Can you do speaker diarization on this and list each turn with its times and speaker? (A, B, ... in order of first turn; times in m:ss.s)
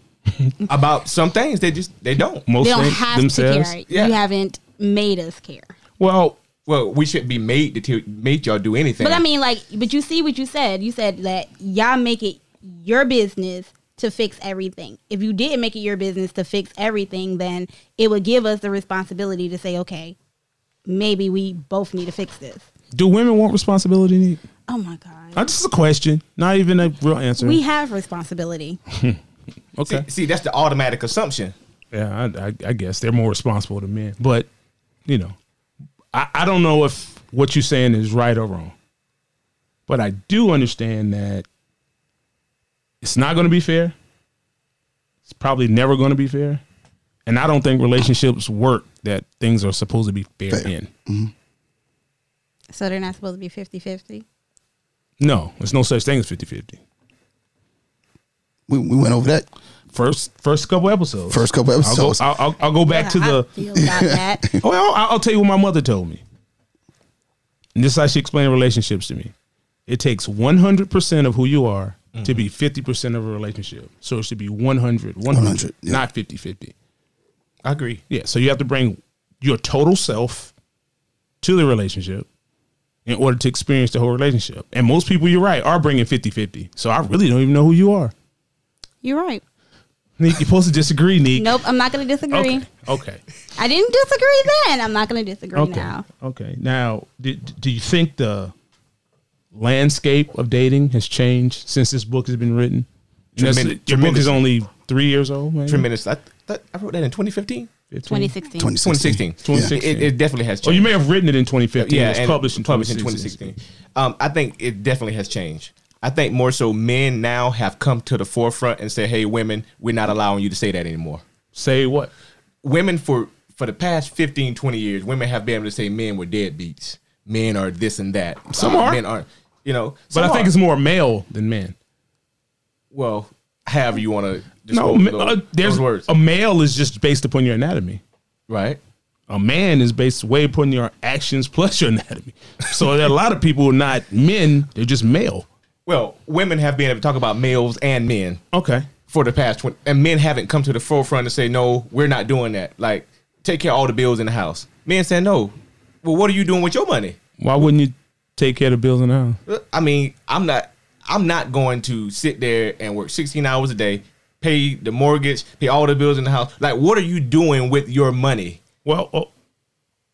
0:00.7-0:02.5 A
0:02.5-0:03.8 B
0:02.6-0:05.7 C
0:03.9-0:04.2 A
0:06.0-0:06.4 B
0:06.7-0:09.2 A
0:09.0-0:20.2 C
0:20.9-0:22.7 C
0:22.9-0:24.4 B
0:24.7-0:25.5 C
0:25.4-0:27.6 B
0:27.4-0:28.8 C
0:28.9-0:29.2 B
0:29.8-0:30.1 B
0:29.9-0:31.6 A
0:31.9-0:34.5 B
0:35.1-0:35.4 B
0:36.1-0:38.7 B
0:39.9-0:41.4 B
0:43.0-0:43.9 B
0:45.3-0:46.6 B
0:47.3-0:50.9 B
0:50.5-0:51.3 D
0:52.7-0:54.2 C
0:55.2-0:56.8 B
0:58.7-0:59.5 D
0:59.9-1:03.5 B
1:01.3-1:02.2 D
1:02.8-1:04.4 C
1:03.8-1:04.6 D
1:04.6-1:06.2 B
1:07.8-1:09.3 B
1:09.9-1:16.7 B
1:12.1-1:12.5 A
1:15.3-1:16.0 D
1:17.6-1:18.0 A
1:18.1-1:20.5 B
1:21.4-1:22.3 B
1:23.1-1:28.1 B
1:29.0-1:29.4 C
1:30.2-1:31.6 B
1:31.3-1:32.7 C
1:32.3-1:33.2 B
1:33.6-1:36.0 C
1:35.6-1:38.5 B
1:39.5-1:45.9 B
1:43.4-1:44.4 A
1:45.7-1:47.7 A
1:47.9-1:48.3 B
1:48.1-1:48.7 C
1:48.6-1:49.7 D
1:48.8-1:50.9 A
1:49.4-1:53.5 B
1:51.8-2:01.2 A
2:01.6-2:02.1 B
2:02.6-2:10.5 A
2:08.5-2:09.0 B
2:10.1-2:11.8 B
2:12.9-2:16.1 A
2:14.7-2:18.0 B
2:18.5-2:18.8 A
2:19.3-2:25.5 B
2:25.9-2:28.4 A
2:28.5-2:28.9 B
2:29.1-2:37.2 A
2:37.4-2:39.4 B
2:39.5-2:48.6 A
2:48.8-2:49.3 B